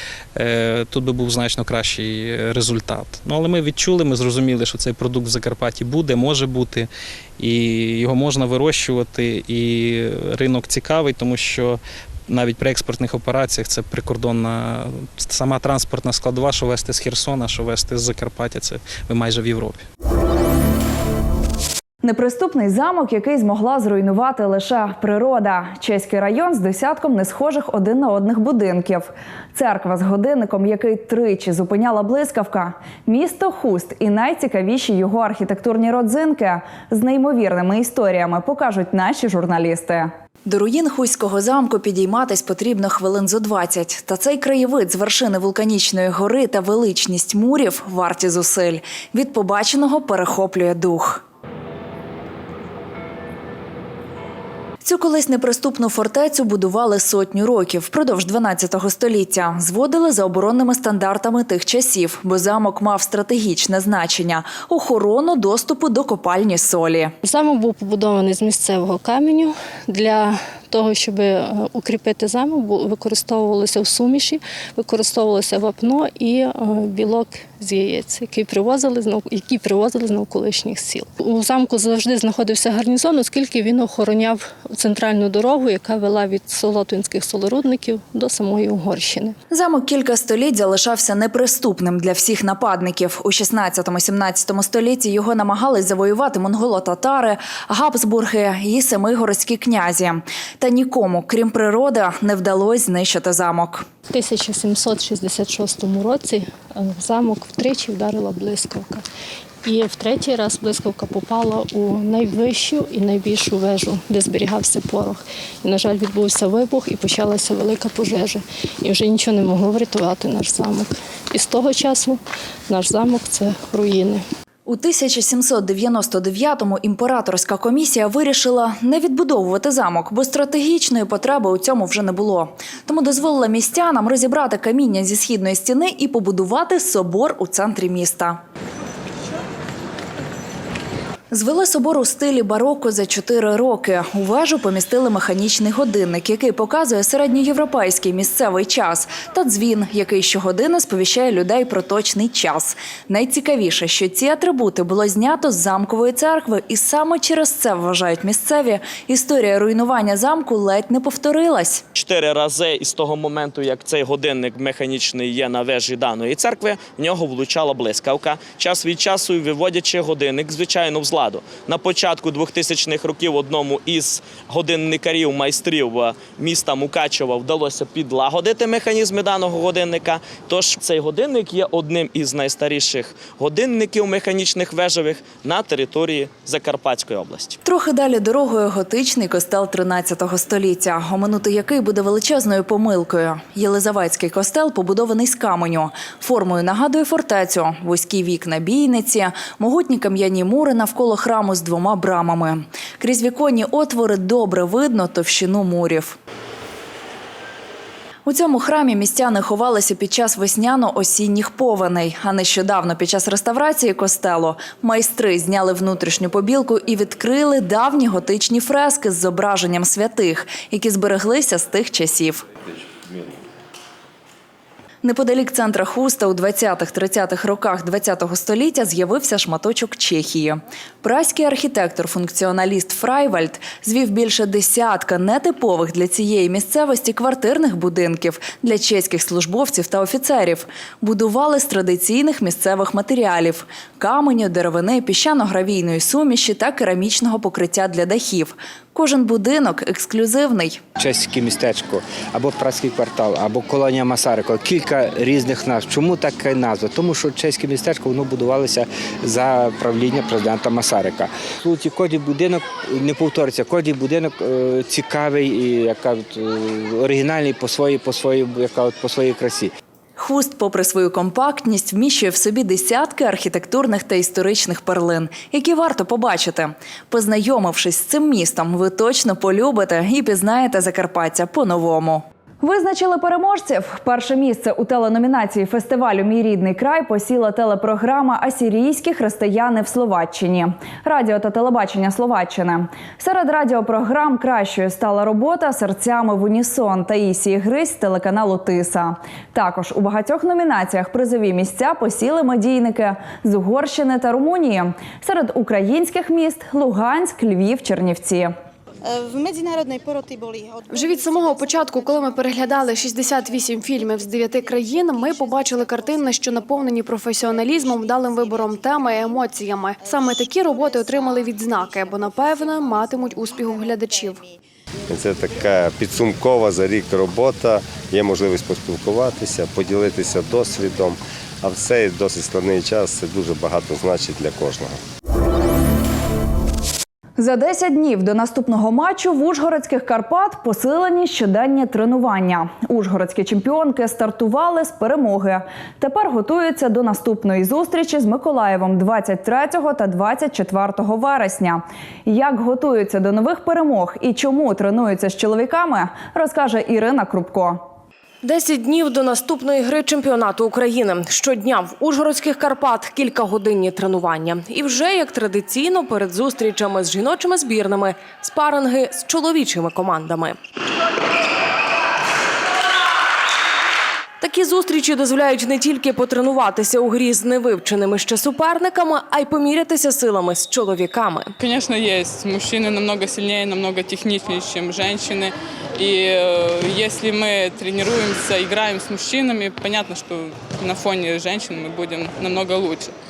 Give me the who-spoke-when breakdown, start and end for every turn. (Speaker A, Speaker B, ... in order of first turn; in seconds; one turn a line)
Speaker A: 0.3-19.8
Speaker B: 22.0-51.2
Speaker B: 54.8-67.1
Speaker C: 67.2-89.3
Speaker B: 89.5-103.8
Speaker C: 104.1-109.0
Speaker C: 109.6-124.2
Speaker B: 124.7-138.4
Speaker B: 141.3-161.8
Speaker D: 161.9-187.6
Speaker B: 187.6-206.2
Speaker B: 208.2-222.4
Speaker B: 225.0-250.8
Speaker E: 251.0-269.7
Speaker B: 270.2-308.5
Speaker F: 309.7-310.0
Speaker F: 310.9-324.4
Speaker G: 325.1-335.0
Speaker B: 337.4-357.8
Speaker H: 358.4-370.6
Speaker H: 374.4-381.5
Speaker I: 381.6-393.1